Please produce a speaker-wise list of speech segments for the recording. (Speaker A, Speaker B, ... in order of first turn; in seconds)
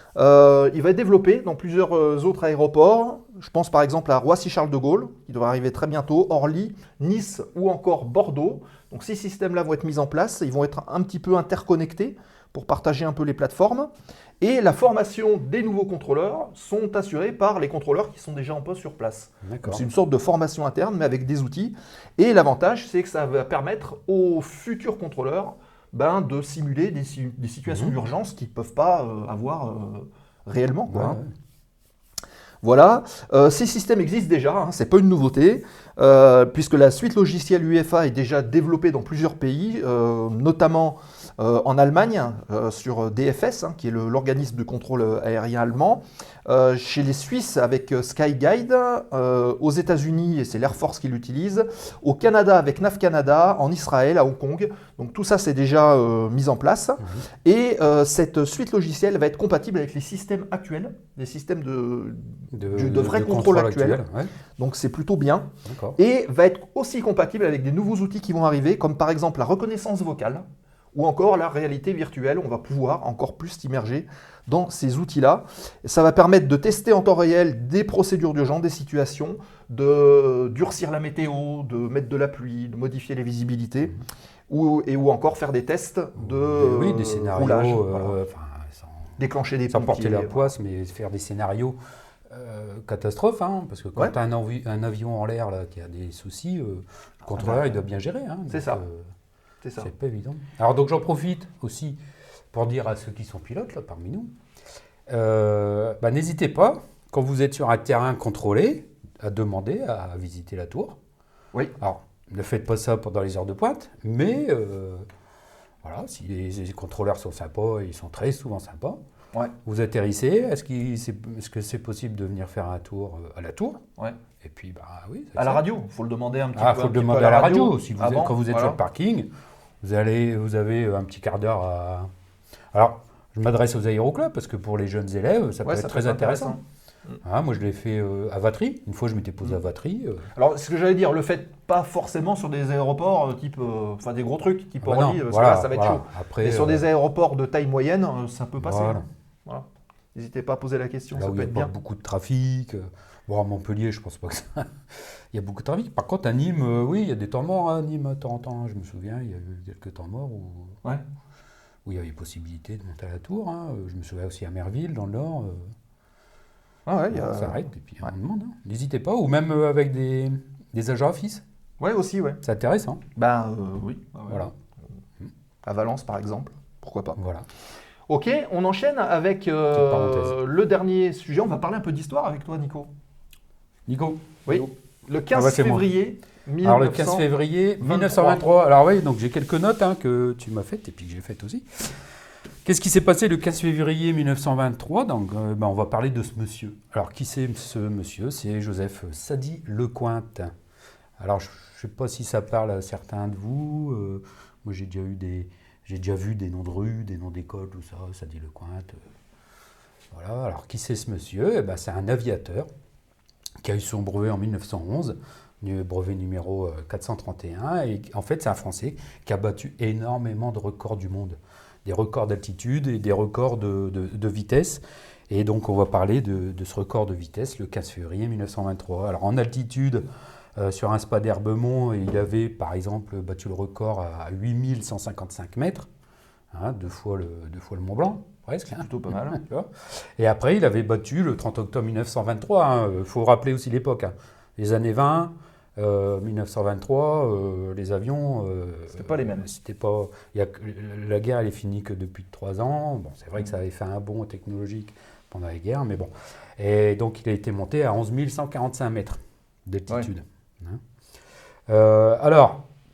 Speaker A: 0.2-13.9, 14.4-31.2, 32.6-64.0, 64.6-84.0, 84.5-88.2, 89.2-90.5, 97.4-97.8, 98.5-98.8, 99.6-99.9, 125.4-128.8, 135.7-137.2, 140.3-151.7, 166.9-168.1, 171.8-172.4, 173.2-174.4, 175.7-177.2, 178.1-182.9, 184.5-187.3, 187.8-188.4, 238.7-239.4, 248.9-249.5
Speaker B: 19.4-19.8, 27.7-27.9, 30.9-31.3, 62.5-64.3, 65.7-66.0, 86.2-89.1, 89.7-91.8, 92.3-99.1, 99.8-102.0, 102.5-104.3, 105.1-111.0, 111.8-115.1, 115.8-119.0, 119.7-123.8, 124.4-125.6, 126.6-129.3, 129.8-132.1, 132.7-136.6, 137.2-140.3, 144.8-146.8, 148.6-149.0, 151.2-160.8, 161.8-165.7, 167.1-171.4, 172.4-173.0, 174.3-174.5, 177.2-177.5, 179.7-180.4, 183.9-184.7, 185.3-185.9, 186.6-191.9, 192.7-200.5, 201.2-209.0, 210.1-212.7, 213.6-235.9, 236.5-260.8, 261.7-262.6